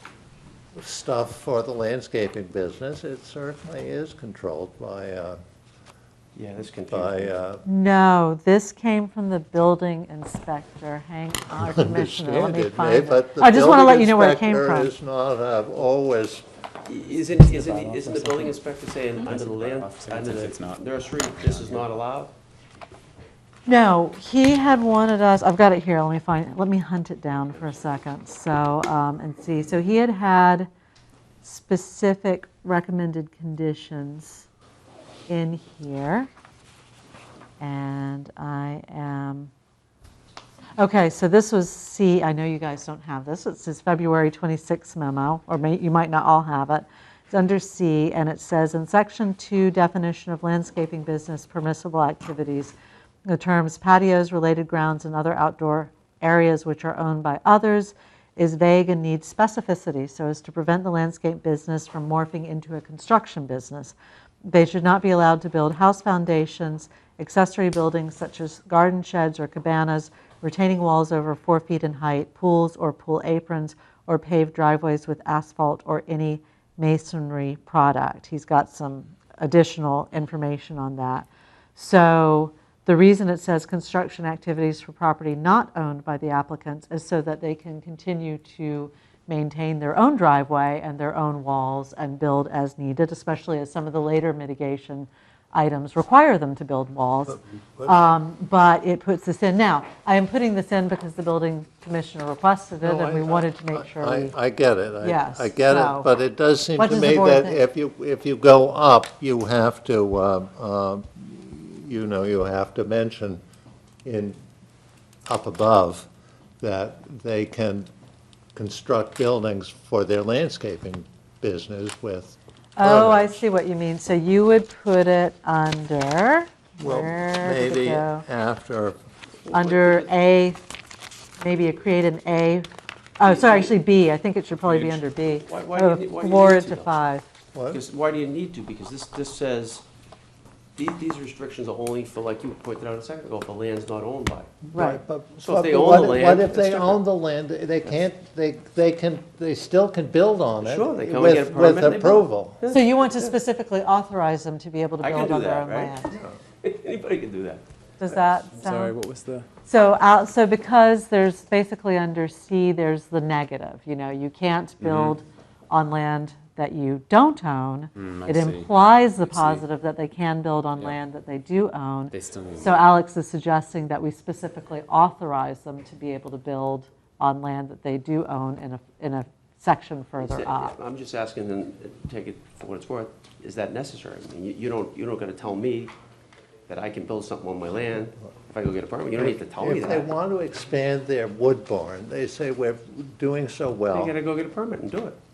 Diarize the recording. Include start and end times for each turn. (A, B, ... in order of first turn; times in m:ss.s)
0:00.7-0:05.4 A
0:06.4-0:07.3 B
0:06.9-0:07.6 A
0:07.6-0:14.9 C
0:11.6-0:16.4 A
0:16.8-0:22.3 B
0:17.5-0:18.5 D
0:19.2-0:21.9 D
0:23.7-0:30.7 C
0:31.4-0:34.5 C
0:35.3-0:36.3 C
0:37.6-0:39.5 C
0:40.8-0:52.7 C
0:53.2-1:44.3 C
1:42.8-1:53.4 A
1:45.0-1:46.1 C
1:46.8-1:47.6 C
1:54.0-1:54.4 A
1:55.3-1:56.1 A
1:56.6-1:57.9 A
1:58.5-2:03.4 A
2:02.8-2:08.2 C
2:06.8-2:09.0 A
2:09.4-2:10.1 B
2:09.5-2:10.6 C
2:11.4-2:17.3 C
2:13.2-2:13.7 B
2:14.7-2:15.1 D
2:15.4-2:16.9 B
2:17.5-2:17.8 A
2:17.7-2:19.8 B
2:20.8-2:24.6 B
2:24.6-2:32.6 A
2:24.7-2:25.0 C
2:25.4-2:27.0 B
2:30.6-2:33.3 B
2:32.7-2:36.1 C
2:35.0-2:38.2 B
2:38.0-2:38.9 C
2:38.5-2:39.5 D
2:39.6-3:00.7 C
2:44.8-2:45.2 D
2:48.0-2:48.7 D
2:49.2-2:49.6 D
2:52.1-2:52.9 D
3:00.2-3:05.9 B
3:06.7-3:10.1 B
3:09.2-3:14.1 A
3:13.9-3:15.2 B